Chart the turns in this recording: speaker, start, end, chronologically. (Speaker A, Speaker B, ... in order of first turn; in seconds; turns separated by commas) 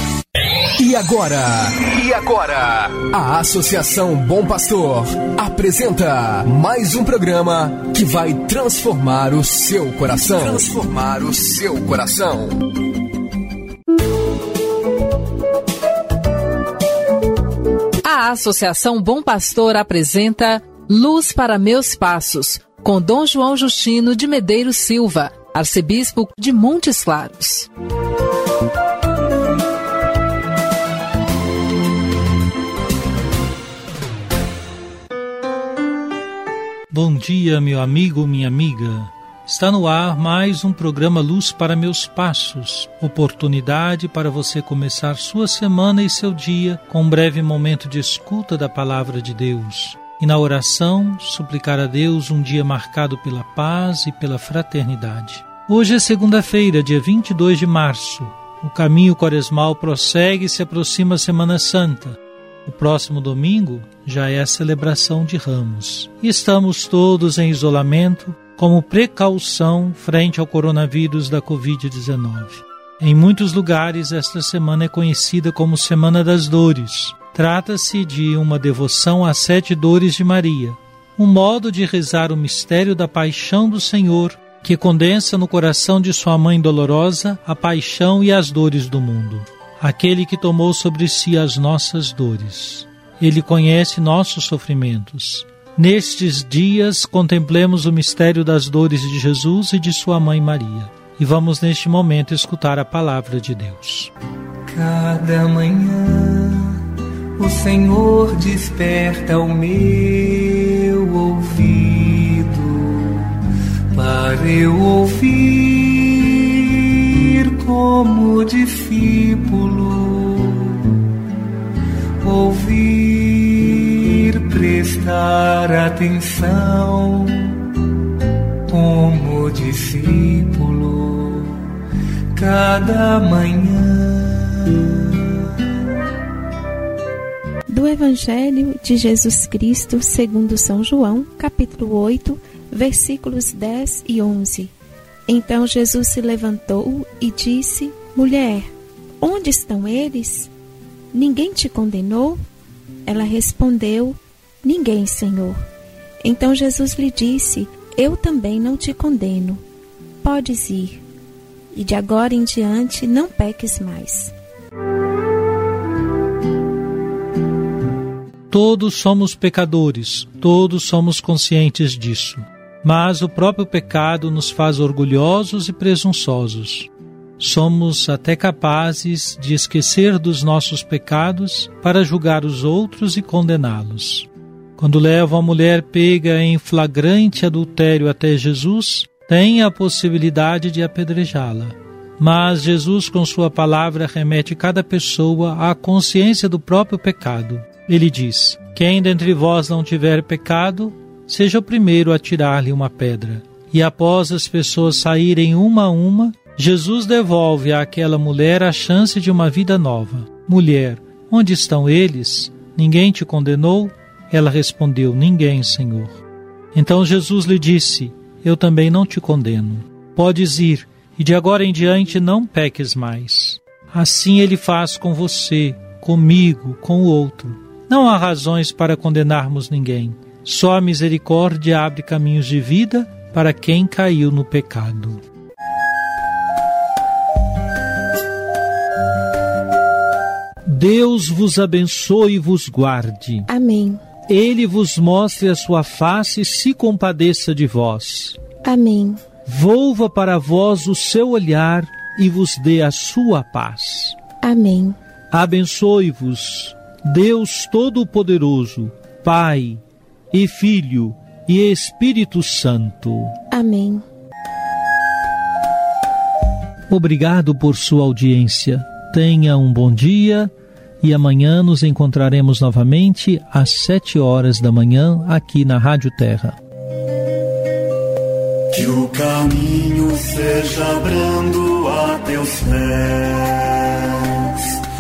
Speaker A: 0.8-12.6, Speaker B: 18.0-27.7, Speaker C: 36.9-104.1, Speaker D: 104.7-106.8, Speaker D: 107.4-113.4, Speaker D: 113.9-120.9, Speaker D: 122.2-127.6, Speaker D: 128.7-131.7, Speaker D: 132.3-135.2, Speaker E: 137.7-144.7, Speaker E: 145.3-148.7, Speaker E: 149.2-150.5, Speaker E: 151.1-152.4, Speaker E: 153.1-155.6, Speaker E: 156.2-159.6, Speaker E: 160.2-161.0, Speaker E: 161.7-164.3, Speaker C: 168.5-216.2, Speaker C: 216.7-235.2, Speaker C: 240.7-243.5, Speaker E: 243.5-244.0, Speaker C: 244.3-248.4, Speaker E: 248.6-249.2, Speaker C: 249.5-254.2, Speaker E: 254.4-255.0, Speaker C: 255.3-263.4, Speaker E: 263.5-264.0, Speaker C: 266.9-276.6, Speaker F: 278.7-284.8